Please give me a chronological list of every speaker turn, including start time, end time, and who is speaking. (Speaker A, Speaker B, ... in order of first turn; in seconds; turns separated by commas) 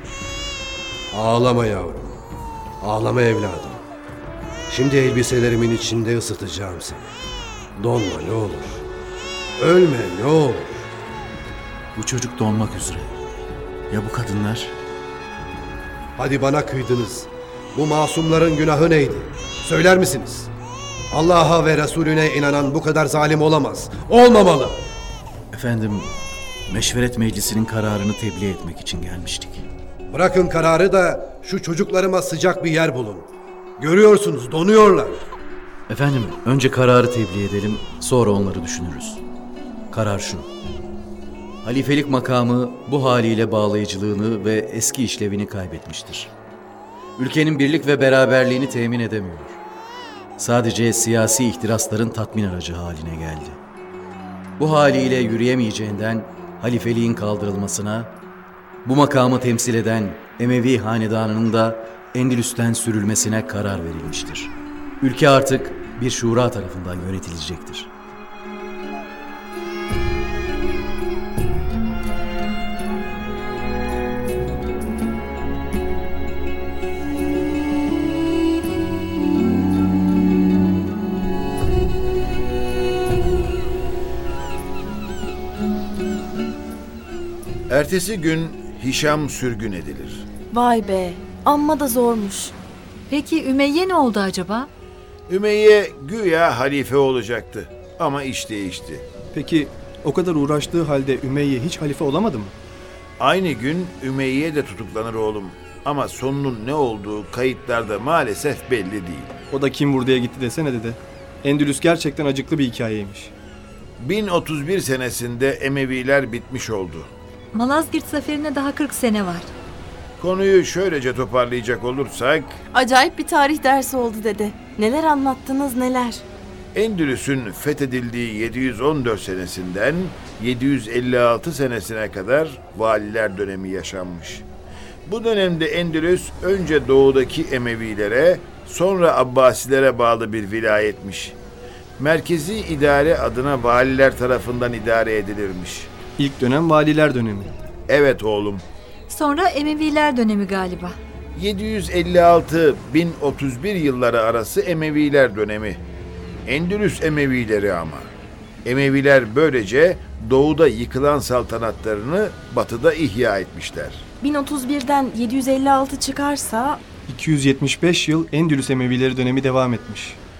Speaker A: 1.1-2.2, Speaker A: 2.8-3.8, Speaker A: 4.7-7.1, Speaker A: 7.8-8.8, Speaker A: 9.6-10.9, Speaker B: 11.9-13.1, Speaker B: 13.9-14.7, Speaker A: 16.2-20.5, Speaker A: 21.1-24.8, Speaker B: 25.5-26.1, Speaker B: 26.7-29.6, Speaker A: 30.1-33.3, Speaker A: 33.8-35.2, Speaker B: 35.9-39.2, Speaker B: 39.9-40.5, Speaker B: 41.6-46.3, Speaker B: 47.2-49.6, Speaker B: 50.4-53.6, Speaker B: 54.6-58.1, Speaker B: 58.8-67.9, Speaker C: 87.7-90.2, Speaker D: 90.5-92.5, Speaker E: 93.1-94.7, Speaker C: 95.3-99.0, Speaker F: 99.3-102.5, Speaker C: 103.2-109.3, Speaker F: 109.5-113.3, Speaker C: 114.0-117.1, Speaker E: 117.5-119.5, Speaker C: 120.2-122.6, Speaker D: 122.7-126.2, Speaker C: 126.7-134.4, Speaker C: 135.1-141.3, Speaker C: 142.0-145.9, Speaker F: 146.2-147.5, Speaker C: 147.9-148.6, Speaker E: 149.1-150.9, Speaker C: 151.3-155.8, Speaker C: 156.4-158.1, Speaker C: 158.6-164.0, Speaker D: 164.2-166.8, Speaker F: 167.1-170.2